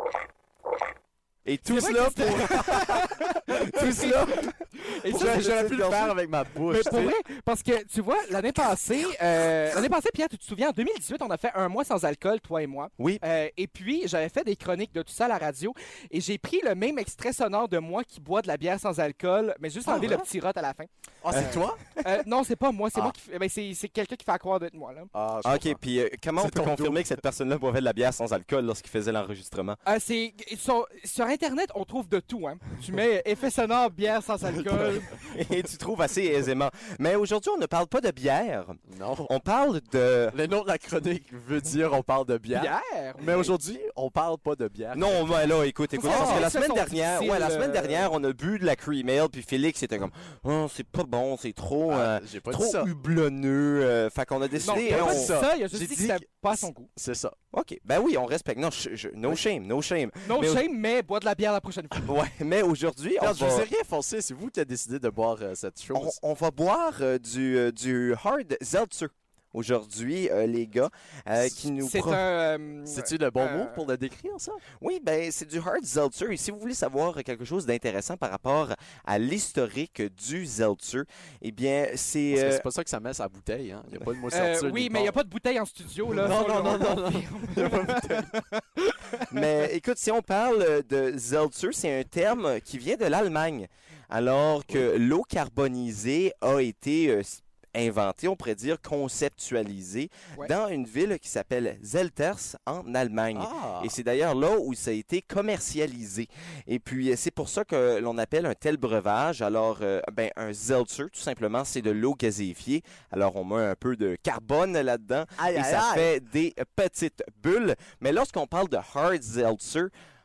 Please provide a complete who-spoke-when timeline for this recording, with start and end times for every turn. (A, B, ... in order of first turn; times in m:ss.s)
0:01.4-0:06.2 A
0:01.7-0:04.2 B
0:04.8-0:05.6 B
0:05.1-0:07.1 C
0:06.7-0:25.1 B
0:13.0-0:13.2 A
0:19.9-0:20.2 C
0:21.2-0:21.8 C
0:21.4-0:21.6 A
0:25.1-0:25.8 C
0:25.4-0:29.8 A
0:26.4-0:27.1 C
0:29.8-0:35.1 B
0:34.7-0:35.0 C
0:35.3-0:40.4 A
0:38.9-0:39.3 C
0:40.3-0:45.2 C
0:42.5-0:43.5 B
0:44.9-0:55.3 A
0:46.0-0:48.1 B
0:46.0-0:46.5 C
0:51.9-0:52.9 C
0:54.6-0:56.9 B
0:54.6-0:57.4 C
0:57.5-1:00.6 A
1:00.2-1:02.1 B
1:02.0-1:03.7 A
1:03.2-1:06.2 C
1:05.9-1:12.2 A
1:11.8-1:13.8 B
1:12.9-1:14.6 C
1:14.8-1:22.6 A
1:22.3-1:25.2 C
1:24.3-1:29.4 B
1:26.1-1:28.4 C
1:29.3-1:59.9 A
1:43.4-1:43.9 C
1:55.4-1:56.1 C